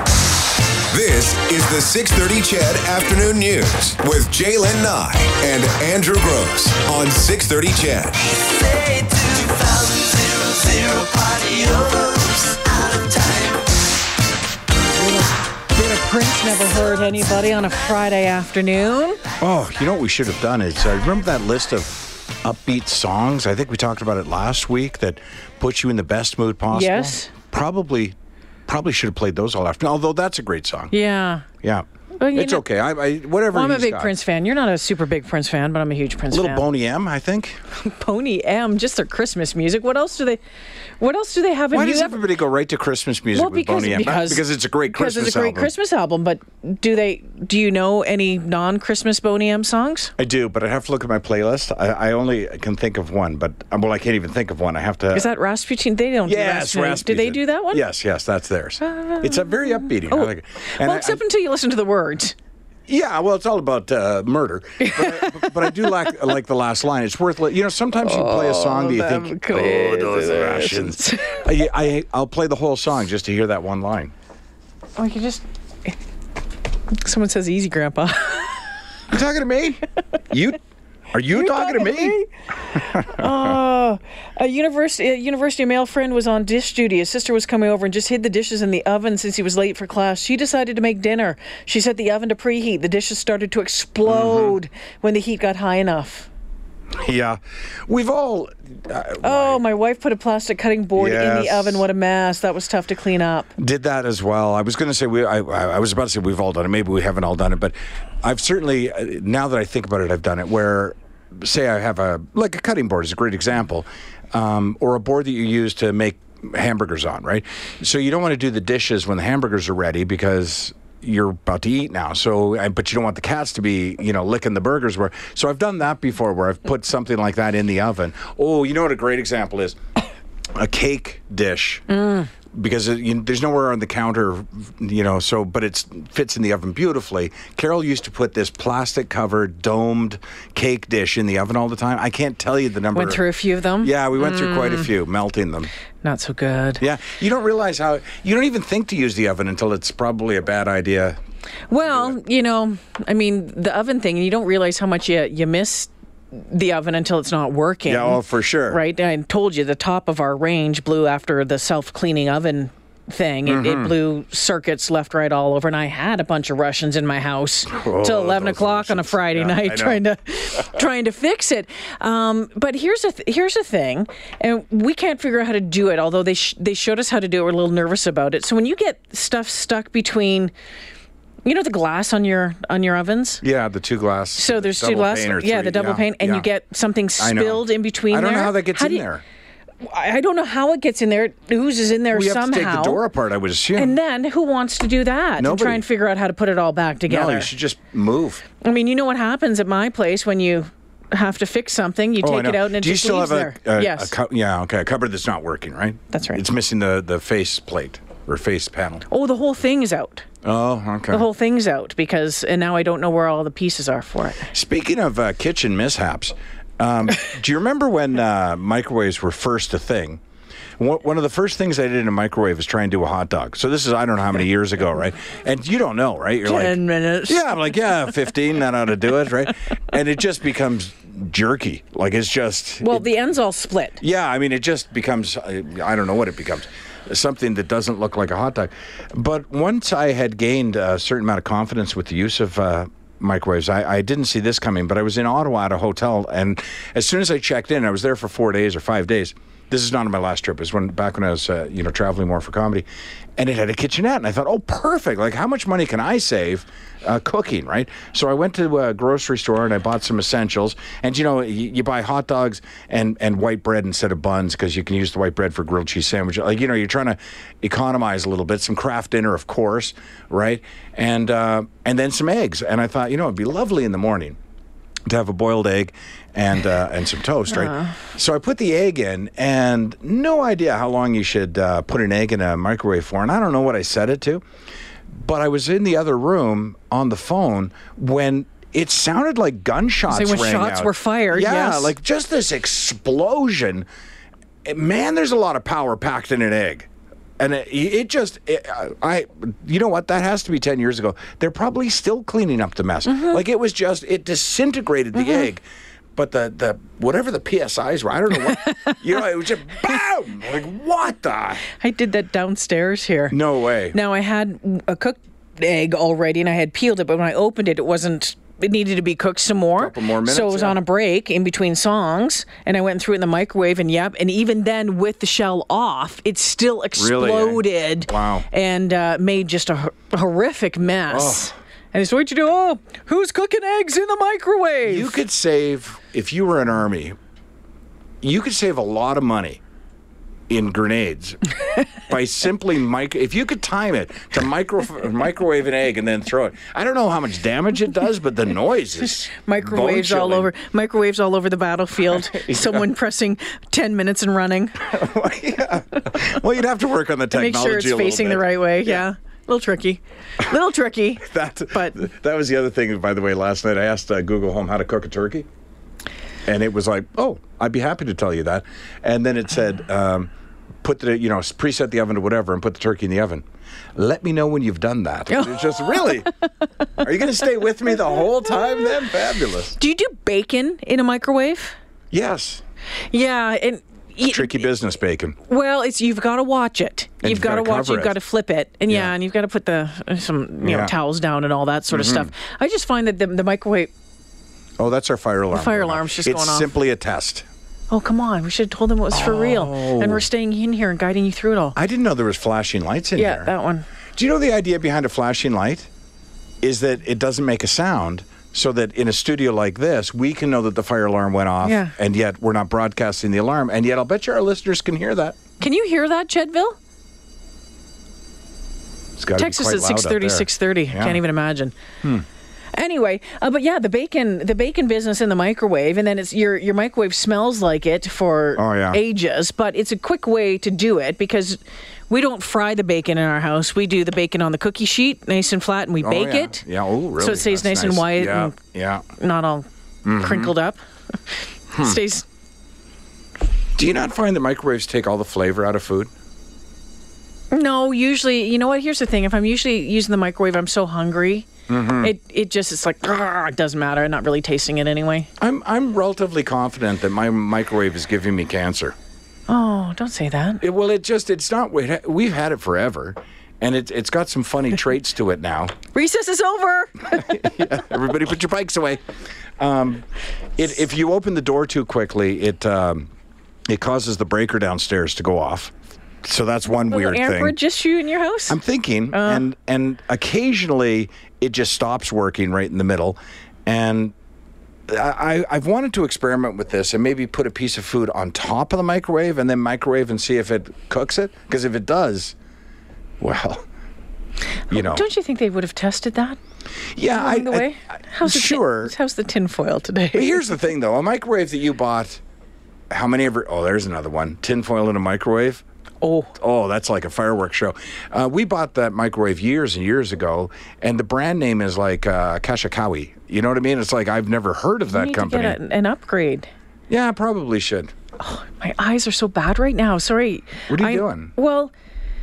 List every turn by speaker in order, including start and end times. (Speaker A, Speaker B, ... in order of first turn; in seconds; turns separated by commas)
Speaker A: 0.9-8.4, Speaker A: 8.9-10.1, Speaker A: 10.6-12.7, Speaker B: 15.0-19.2, Speaker C: 19.4-28.1, Speaker B: 26.7-27.3, Speaker C: 28.7-30.9, Speaker B: 30.9-31.4, Speaker C: 31.6-34.2, Speaker B: 32.2-32.6, Speaker B: 33.5-36.7, Speaker C: 36.3-37.6, Speaker B: 37.7-40.4, Speaker B: 41.0-42.2, Speaker C: 41.7-45.7, Speaker B: 43.3-50.1, Speaker C: 50.2-55.3, Speaker B: 55.1-57.8, Speaker C: 56.3-61.2, Speaker B: 58.8-62.4, Speaker C: 62.9-74.1, Speaker B: 64.8-66.2, Speaker B: 68.0-71.5, Speaker B: 75.0-76.0, Speaker B: 76.9-78.7, Speaker C: 79.1-80.6, Speaker C: 81.1-82.2, Speaker B: 81.3-96.3, Speaker C: 82.8-83.6, Speaker C: 94.1-94.6, Speaker C: 97.0-99.6, Speaker B: 99.2-103.5, Speaker C: 101.0-101.8, Speaker C: 103.6-129.8, Speaker C: 130.6-131.9, Speaker B: 131.9-132.3, Speaker C: 132.5-143.2, Speaker B: 142.9-144.9, Speaker C: 143.8-145.7, Speaker B: 146.0-146.8, Speaker C: 146.8-151.2, Speaker B: 151.7-180.5, Speaker C: 151.8-152.2, Speaker C: 157.9-158.8, Speaker C: 163.5-164.0, Speaker C: 167.7-170.0, Speaker B: 181.4-183.4, Speaker C: 183.4-186.5, Speaker B: 184.4-189.1, Speaker C: 187.2-189.2, Speaker B: 189.8-193.0, Speaker C: 192.1-194.0, Speaker B: 193.8-197.5, Speaker C: 195.4-195.8, Speaker C: 197.1-198.4, Speaker B: 198.6-204.1, Speaker C: 202.2-209.1, Speaker B: 206.1-206.4, Speaker B: 209.1-210.2, Speaker C: 210.4-211.3, Speaker B: 211.1-214.5, Speaker C: 214.5-220.2, Speaker C: 220.8-233.1, Speaker B: 226.4-227.6, Speaker B: 232.8-234.0, Speaker C: 234.0-252.9, Speaker C: 253.4-274.4, Speaker C: 275.1-284.4, Speaker B: 277.5-277.9, Speaker C: 285.2-293.9, Speaker B: 290.1-291.9, Speaker C: 294.7-305.6, Speaker B: 303.1-303.4, Speaker B: 305.2-305.5, Speaker C: 306.2-311.6, Speaker B: 308.4-309.0, Speaker B: 311.8-313.4, Speaker C: 313.3-314.0, Speaker B: 313.9-335.2, Speaker C: 319.8-320.8, Speaker C: 327.0-328.5, Speaker C: 331.1-331.5, Speaker C: 334.8-337.2, Speaker C: 338.2-339.6, Speaker C: 340.5-350.5, Speaker B: 349.3-354.9, Speaker C: 352.1-352.9, Speaker C: 354.8-359.1, Speaker B: 357.3-362.0, Speaker C: 361.2-365.5, Speaker C: 366.5-370.3, Speaker C: 370.8-373.4, Speaker C: 374.0-376.3, Speaker B: 375.3-376.3, Speaker C: 377.0-379.8, Speaker B: 379.8-381.8, Speaker C: 382.1-382.6, Speaker B: 383.1-384.7, Speaker C: 384.3-385.4, Speaker B: 385.5-393.9, Speaker C: 387.2-388.2, Speaker C: 390.6-390.9, Speaker C: 391.9-392.3, Speaker C: 394.8-397.5, Speaker B: 395.5-396.7, Speaker B: 397.9-401.8, Speaker C: 399.1-400.3, Speaker C: 401.8-403.5, Speaker B: 403.1-403.9, Speaker C: 404.2-405.9, Speaker C: 406.6-415.4, Speaker B: 411.6-411.9, Speaker B: 415.6-416.8, Speaker C: 419.2-421.2, Speaker B: 419.4-421.7, Speaker B: 422.7-436.6, Speaker C: 428.6-429.0, Speaker C: 436.0-439.1, Speaker B: 437.2-438.6, Speaker B: 439.2-440.8, Speaker C: 440.0-440.5, Speaker C: 441.7-442.0, Speaker B: 441.7-442.2, Speaker C: 443.8-446.1, Speaker B: 447.5-451.5, Speaker C: 451.7-452.1, Speaker B: 452.0-455.3, Speaker C: 455.4-459.0, Speaker B: 459.5-460.6, Speaker C: 460.6-465.8, Speaker B: 465.9-467.3, Speaker C: 467.1-469.0, Speaker C: 469.6-470.1, Speaker C: 470.6-473.1, Speaker C: 473.7-475.7, Speaker C: 476.2-477.6, Speaker B: 476.7-478.6, Speaker C: 478.5-484.1, Speaker B: 479.1-479.4, Speaker C: 484.9-492.4, Speaker C: 493.2-493.6, Speaker C: 494.7-495.1, Speaker B: 494.7-496.4, Speaker C: 496.9-498.9, Speaker B: 497.1-500.4, Speaker C: 500.1-502.2, Speaker C: 502.9-505.6, Speaker B: 506.0-506.3, Speaker C: 506.4-515.6, Speaker B: 514.9-516.5, Speaker C: 516.9-517.9, Speaker B: 518.2-521.7, Speaker C: 520.7-521.3